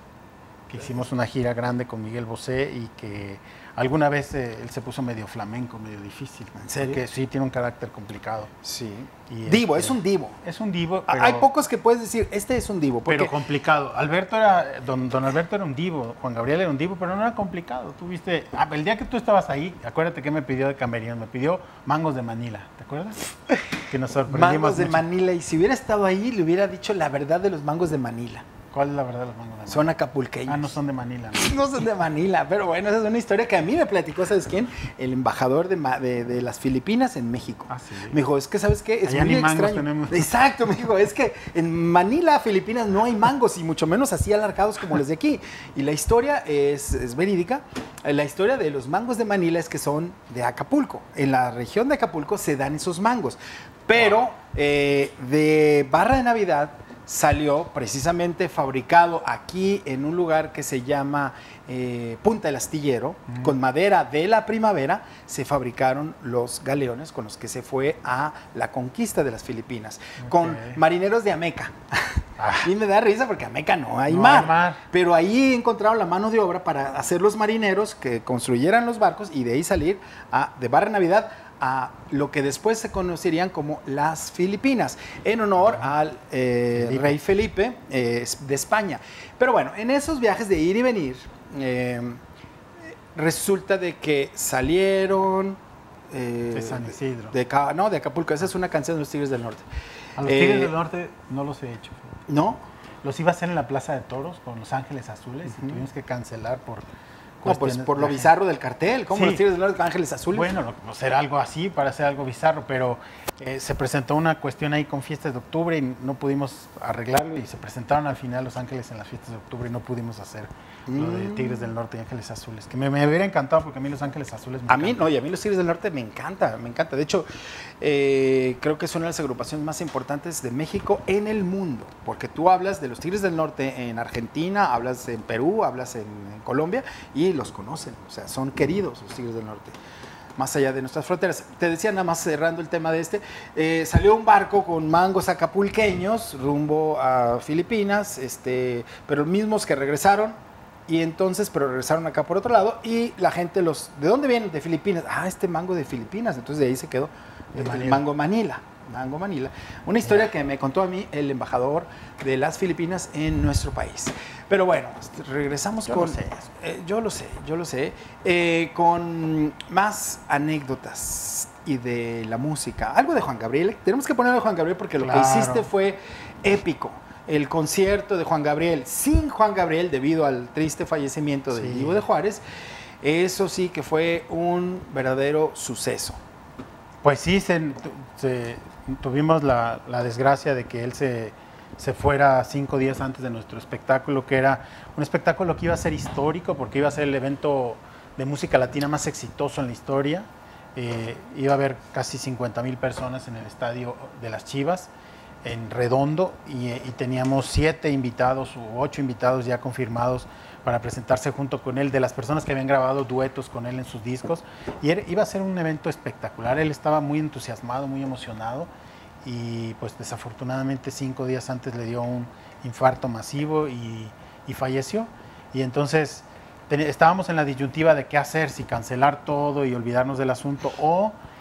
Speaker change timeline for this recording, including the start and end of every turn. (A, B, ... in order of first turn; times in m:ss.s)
0:00.7-0:08.5 A
0:06.6-0:07.0 B
0:08.6-0:10.4 B
0:09.3-0:11.5 A
0:11.1-0:13.3 B
0:13.0-0:23.2 A
0:23.9-0:25.0 A
0:24.3-0:28.4 B
0:28.7-0:29.9 A
0:29.7-0:30.7 B
0:30.5-0:31.6 A
0:31.4-1:11.7 B
0:37.7-0:38.2 A
0:39.0-0:40.3 A
0:54.0-0:54.2 A
1:03.3-1:03.6 A
1:10.2-1:10.8 A
1:12.4-1:12.7 A
1:12.6-1:32.2 B
1:14.1-1:14.8 A
1:26.7-1:27.2 A
1:33.1-1:35.6 B
1:36.1-1:39.6 B
1:36.5-1:37.3 A
1:40.2-1:42.1 A
1:40.2-1:40.7 B
1:42.3-1:42.6 B
1:43.0-1:46.8 A
1:45.5-1:45.8 B
1:47.4-1:48.3 A
1:47.4-1:50.5 B
1:49.1-1:49.4 A
1:50.3-2:05.0 A
2:00.9-2:01.6 B
2:04.7-2:07.3 B
2:07.8-2:19.8 B
2:20.4-3:02.4 B
2:37.5-2:38.0 A
2:40.0-2:40.3 A
2:45.9-2:46.4 A
2:55.0-2:55.7 A
3:01.5-3:02.0 A
3:03.0-3:06.2 B
3:07.0-3:24.9 A
3:25.4-3:38.7 A
3:39.2-3:51.2 A